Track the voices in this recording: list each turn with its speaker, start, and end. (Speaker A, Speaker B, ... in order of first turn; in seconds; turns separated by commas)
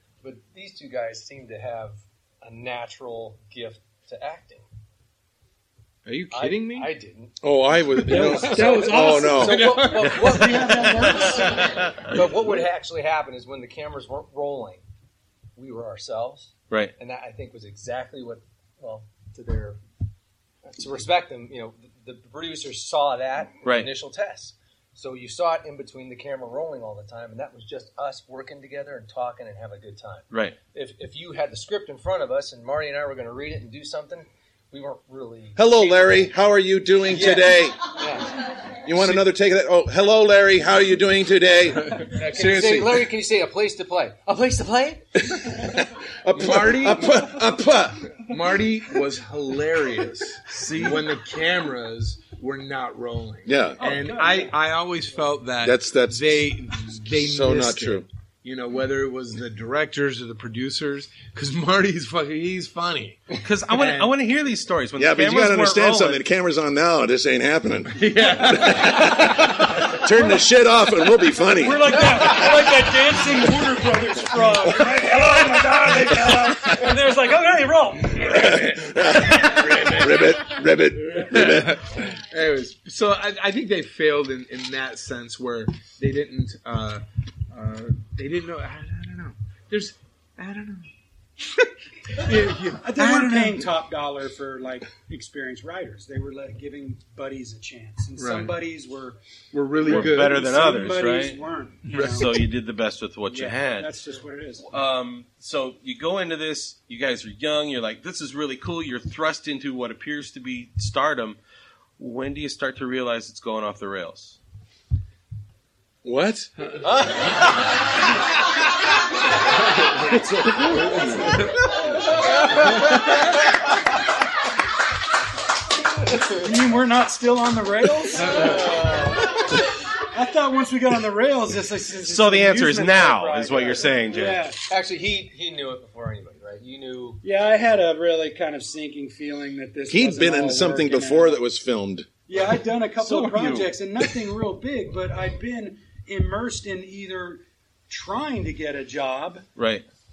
Speaker A: 0.2-4.7, Speaker B: 6.0-6.9, Speaker A: 6.3-7.3, Speaker C: 7.4-9.8, Speaker B: 8.0-10.8, Speaker D: 8.1-11.9, Speaker A: 8.1-14.8, Speaker E: 11.6-11.9, Speaker A: 15.6-19.8, Speaker A: 20.6-36.3, Speaker E: 23.6-23.9, Speaker E: 30.3-30.6, Speaker C: 35.6-37.9, Speaker A: 37.1-38.3, Speaker C: 38.8-43.0, Speaker B: 39.0-39.2, Speaker B: 42.0-43.0, Speaker A: 42.0-45.0, Speaker C: 45.3-48.2, Speaker B: 46.3-47.3, Speaker B: 48.2-64.1, Speaker E: 50.5-51.0, Speaker C: 53.5-53.8, Speaker D: 53.8-54.5, Speaker C: 55.6-56.5, Speaker C: 57.1-58.0, Speaker E: 63.4-66.2, Speaker C: 65.0-72.7, Speaker B: 68.0-69.6, Speaker D: 70.2-70.5, Speaker D: 71.5-78.7, Speaker C: 74.8-75.2, Speaker C: 78.1-82.0, Speaker B: 79.2-90.9, Speaker B: 91.4-93.7, Speaker D: 92.3-99.2, Speaker B: 98.2-98.5, Speaker B: 99.5-100.4, Speaker D: 99.8-102.4, Speaker E: 99.8-101.4, Speaker B: 101.9-102.2, Speaker E: 101.9-103.9, Speaker D: 103.3-104.7, Speaker E: 104.7-111.4, Speaker E: 112.0-114.4, Speaker C: 116.0-116.7, Speaker C: 120.1-121.3, Speaker D: 126.2-129.0, Speaker A: 128.8-129.2, Speaker D: 130.0-134.7, Speaker E: 132.0-134.5, Speaker A: 134.7-137.2, Speaker D: 137.2-141.4, Speaker C: 139.9-142.1, Speaker D: 142.3-149.4, Speaker E: 143.0-143.7, Speaker E: 149.6-149.8